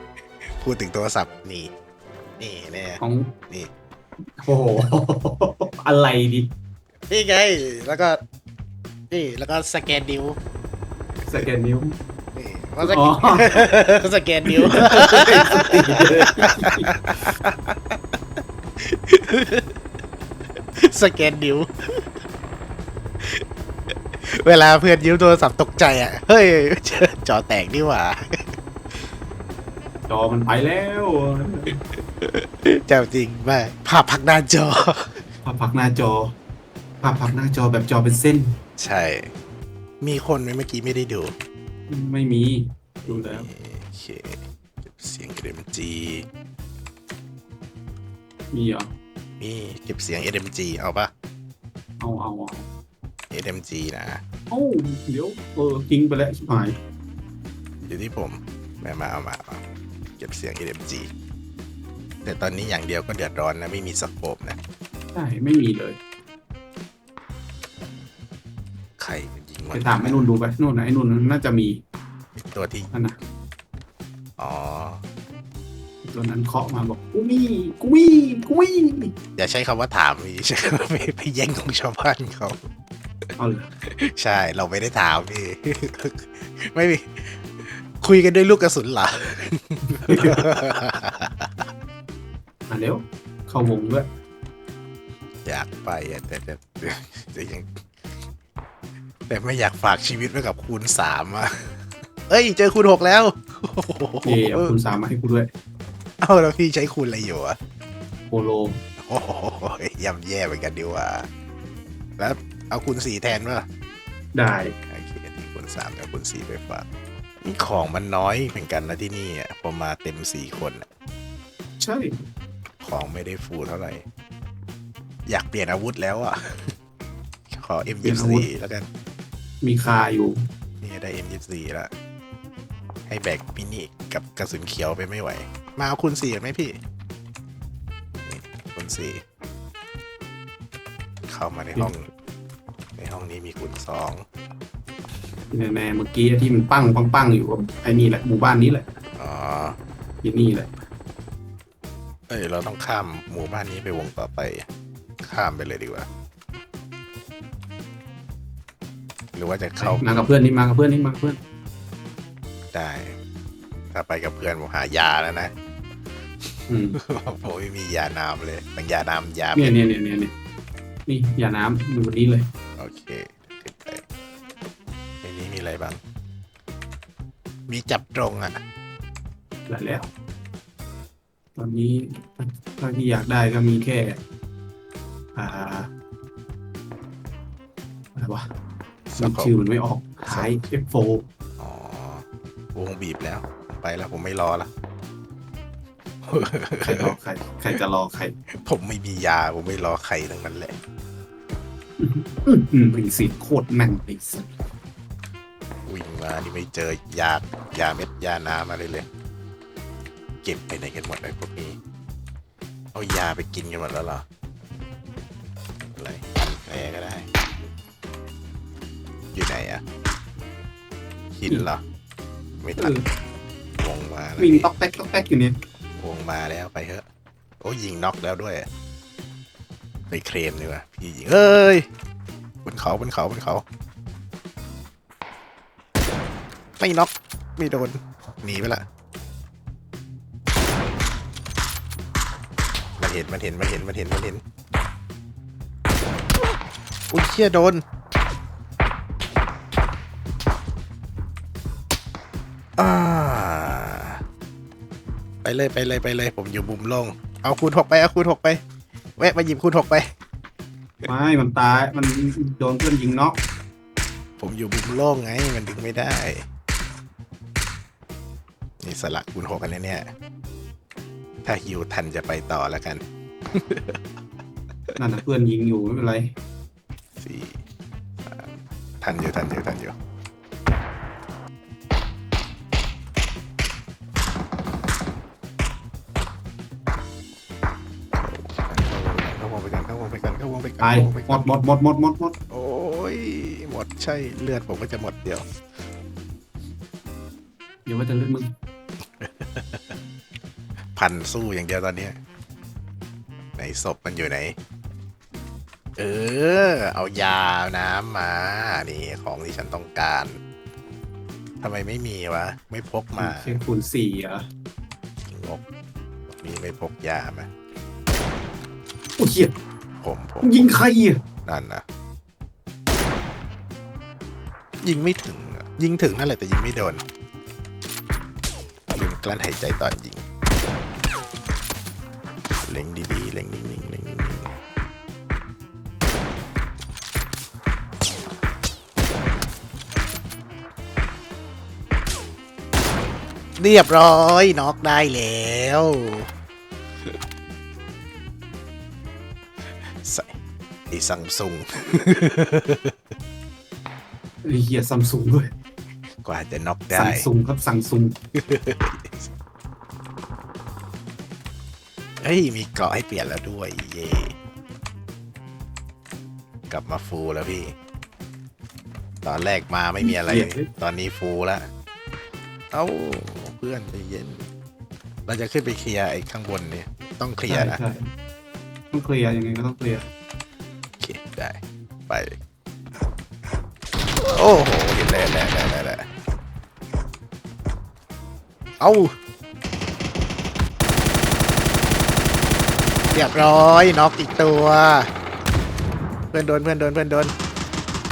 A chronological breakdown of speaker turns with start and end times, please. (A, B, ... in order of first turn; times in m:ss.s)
0:00.4-0:01.7 A
0:02.4-0:03.7 A
0:03.0-0:03.3 B
0:04.4-0:06.5 B
0:07.1-0:08.2 A
0:09.1-0:10.4 A
0:11.2-0:12.0 B
0:12.3-0:16.0 A
0:12.8-0:13.6 B
0:14.4-0:16.9 B
0:16.6-0:18.0 A
0:18.8-0:19.7 A
0:20.8-0:22.1 A
0:24.2-0:28.5 A
0:30.1-0:31.8 B
0:32.2-0:35.2 A
0:35.4-0:36.3 B
0:37.0-0:38.6 B
0:38.8-0:39.3 A
0:40.0-0:41.3 A
0:41.9-0:43.5 B
0:43.0-0:46.2 A
0:48.5-0:48.9 B
0:49.4-0:51.1 A
0:52.0-0:52.7 B
0:53.3-0:54.2 A
0:54.5-0:56.8 B
0:57.8-0:59.6 A
1:00.2-1:01.1 A
1:02.2-1:04.6 A
1:05.1-1:06.0 B
1:09.0-1:10.3 A
1:09.7-1:11.8 B
1:12.4-1:12.9 A
1:12.9-1:13.2 B
1:14.4-1:15.0 A
1:16.0-1:19.1 B
1:19.4-1:22.6 A
1:23.4-1:23.7 B
1:23.9-1:31.7 A
1:29.9-1:30.4 B
1:32.7-1:34.1 B
1:35.4-1:37.7 A
1:39.3-1:44.7 A
1:44.2-1:45.5 B
1:46.2-1:47.6 A
1:48.3-1:48.8 B
1:49.0-1:51.3 A
1:52.2-1:53.6 A
1:54.3-1:54.7 B
1:54.8-1:56.8 A
1:57.4-2:00.9 A
2:01.8-2:02.2 B
2:02.8-2:04.0 A
2:05.3-2:06.8 A
2:07.5-2:08.9 A
2:08.0-2:08.5 B
2:09.6-2:10.4 B
2:10.8-2:11.9 A
2:13.1-2:16.8 A
2:18.2-2:19.2 A
2:21.3-2:22.1 A
2:23.0-2:24.2 A
2:25.5-2:29.0 B
2:29.2-2:29.8 A
2:30.2-2:30.7 B
2:32.3-2:34.6 A
2:35.2-2:36.1 A
2:39.3-2:40.0 A
2:39.8-2:41.4 B
2:42.7-2:43.2 A
2:43.9-2:45.5 A
2:46.4-2:49.8 A
2:46.7-2:47.0 B
2:49.5-2:50.3 B
2:51.1-2:52.5 B
2:52.8-2:54.0 A
2:55.2-2:56.0 A
2:57.7-2:58.6 A
2:59.7-3:00.1 B
3:01.6-3:04.2 B
3:05.3-3:05.9 B
3:08.2-3:08.5 B
3:09.1-3:11.2 B
3:09.2-3:09.5 A
3:11.6-3:12.2 A
3:12.7-3:14.7 A
3:16.2-3:17.1 A
3:16.8-3:18.4 B
3:18.6-3:20.8 A
3:22.0-3:24.5 B
3:25.9-3:29.1 A
3:30.4-3:31.8 A
3:32.9-3:34.2 A
3:35.8-3:37.2 A
3:39.3-3:39.8 A
3:41.3-3:41.8 A
3:42.6-3:42.9 A
3:42.8-3:43.0 B
3:43.8-3:44.7 A
3:44.4-3:45.6 B
3:46.0-3:47.0 A
3:47.6-3:48.7 A
3:50.1-3:51.8 A
3:52.6-3:53.6 A
3:56.8-3:58.8 A
4:03.0-4:04.4 A
4:07.1-4:07.8 A
4:12.8-4:14.2 A
4:15.4-4:18.6 A
4:19.2-4:20.1 A
4:21.0-4:23.4 B
4:24.4-4:26.4 A
4:28.8-4:30.1 A
4:31.4-4:34.0 A
4:35.0-4:36.3 B
4:37.2-4:37.6 A
4:38.2-4:39.9 A
4:48.1-4:51.5 A
4:50.8-4:52.3 B
4:52.5-4:55.4 A
4:57.8-4:58.5 B
4:59.2-5:00.0 A
5:00.9-5:02.2 A
5:03.6-5:04.6 A
5:06.0-5:10.4 A
5:11.6-5:13.6 A
5:13.2-5:14.4 B
5:15.2-5:15.6 A
5:16.3-5:17.5 A
5:19.2-5:19.5 B
5:20.0-5:20.7 A
5:20.4-5:21.2 B
5:21.4-5:21.8 A
5:24.8-5:27.0 A
5:28.9-5:30.2 A
5:32.6-5:34.5 A
5:43.6-5:46.3 A
5:49.7-5:50.3 A
5:50.9-5:52.9 A
5:54.4-5:55.5 B
5:56.2-5:57.3 A
5:56.9-5:58.1 B
5:58.3-5:59.3 A
6:02.2-6:04.3 A
6:06.7-6:07.7 A
6:09.2-6:11.7 A
6:10.0-6:10.7 B
6:12.7-6:14.4 A
6:15.3-6:17.8 A
6:17.5-6:18.1 B
6:18.9-6:20.1 B
6:21.0-6:22.4 A
6:24.2-6:26.1 A
6:28.8-6:29.1 A
6:33.1-6:35.1 A
6:36.3-6:37.3 A